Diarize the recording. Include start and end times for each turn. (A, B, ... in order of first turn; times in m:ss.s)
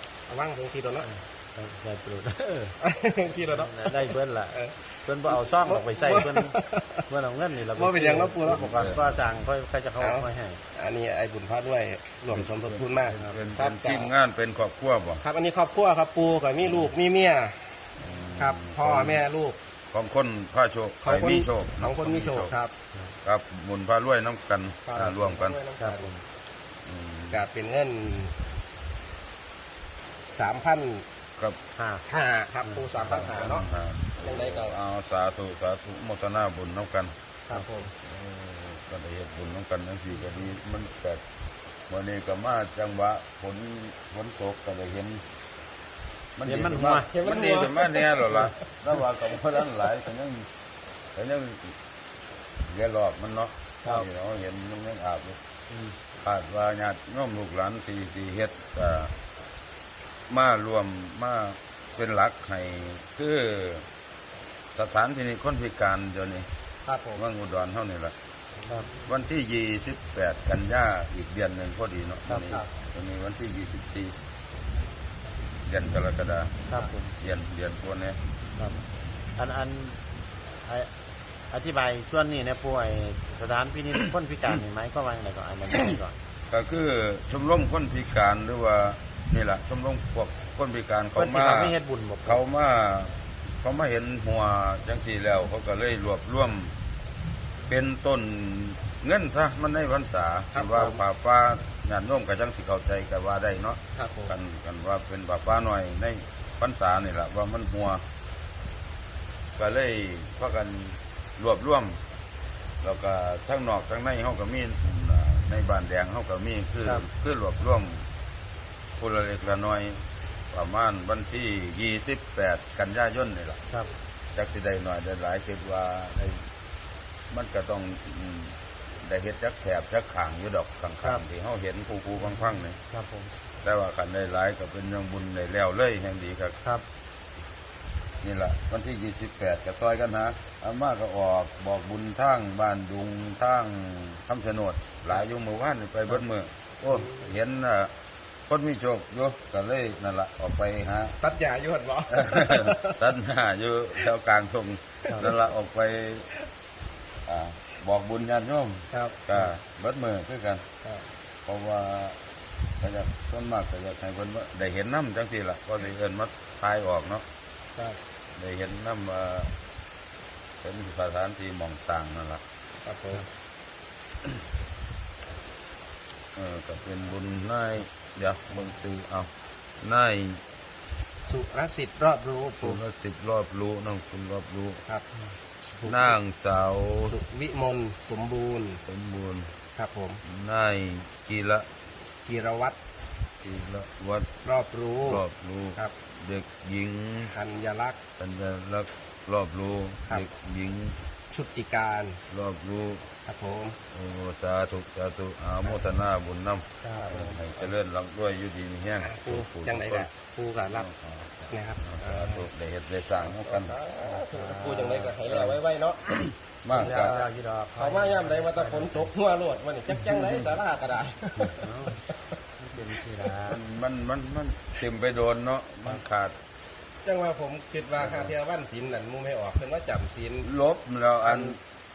0:00.3-0:01.1 A
0:01.0-0:02.8 B
0:02.8-0:03.9 A
0:03.5-0:06.5 B
0:04.5-0:07.0 A
0:07.1-0:10.6 B
0:07.7-0:08.7 A
0:08.4-0:09.2 C
0:10.0-0:14.1 A
0:12.3-0:15.2 C
0:13.1-0:13.4 B
0:15.2-0:19.6 A
0:16.6-0:16.9 C
0:18.0-0:19.2 C
0:19.9-0:22.5 C
0:21.0-0:22.7 A
0:23.2-0:25.6 C
0:24.8-0:26.1 A
0:25.8-0:26.2 B
0:26.8-0:27.4 C
0:27.3-0:28.3 A
0:30.3-0:31.0 A
0:31.8-0:32.0 B
0:32.0-0:33.6 A
0:32.6-0:33.7 B
0:33.0-0:37.1 C
0:34.2-0:34.8 A
0:37.5-0:37.9 A
0:38.0-0:41.2 C
0:41.9-0:45.2 C
0:46.4-0:50.5 C
0:46.4-0:47.1 B
0:47.1-0:48.6 A
0:51.2-0:51.7 C
0:52.7-0:55.4 C
0:55.7-0:56.0 B
0:56.2-0:59.1 C
1:00.3-1:03.8 C
1:04.7-1:06.5 C
1:06.8-1:07.2 A
1:07.1-1:08.1 C
1:08.6-1:09.1 A
1:09.0-1:14.1 C
1:12.3-1:12.6 B
1:15.6-1:16.6 C
1:16.7-1:17.1 B
1:17.2-1:18.2 C
1:18.6-1:18.8 B
1:19.4-1:20.0 B
1:20.6-1:20.9 B
1:21.5-1:26.2 B
1:26.5-1:36.7 C
1:31.2-1:32.4 B
1:37.7-1:48.0 C
1:40.5-1:41.0 A
1:43.9-1:44.3 A
1:49.6-1:52.0 C
1:52.8-1:58.1 C
1:59.0-2:03.6 C
2:04.3-2:06.4 C
2:07.3-2:12.8 C
2:12.3-2:13.3 B
2:13.6-2:16.6 C
2:18.2-2:27.9 C
2:26.9-2:27.2 A
2:28.5-2:31.2 C
2:31.2-2:33.0 A
2:32.1-2:36.3 C
2:37.2-2:40.6 C
2:38.9-2:39.2 A
2:40.8-2:41.1 A
2:41.4-2:42.2 C
2:42.8-2:47.2 C
2:48.4-2:49.5 C
2:50.6-2:52.4 C
2:52.8-2:53.3 A
2:56.4-3:00.4 C
3:01.2-3:02.8 A
3:02.6-3:04.8 C
3:05.6-3:06.2 A
3:05.8-3:07.2 C
3:07.0-3:08.8 A
3:08.8-3:09.5 C
3:09.8-3:10.2 A
3:10.2-3:11.7 C
3:12.2-3:12.8 A
3:13.4-3:14.3 C
3:14.4-3:15.2 A
3:15.0-3:17.3 C
3:17.2-3:18.0 A
3:18.2-3:21.0 C
3:21.3-3:22.2 A
3:22.3-3:23.0 C
3:23.2-3:23.8 A
3:23.9-3:30.1 C
3:26.8-3:27.2 B
3:26.9-3:27.7 A
3:29.0-3:30.8 A
3:30.7-3:33.7 C
3:31.5-3:32.5 A
3:33.2-3:36.0 A
3:34.0-3:35.1 B
3:35.2-3:37.2 C
3:36.7-3:39.1 B
3:36.8-3:42.4 A
3:41.6-3:42.1 B
3:42.6-3:43.6 B
3:43.5-3:46.3 C
3:47.0-3:50.5 A
3:48.0-3:48.3 C
3:50.4-3:51.6 C
3:51.2-3:51.6 A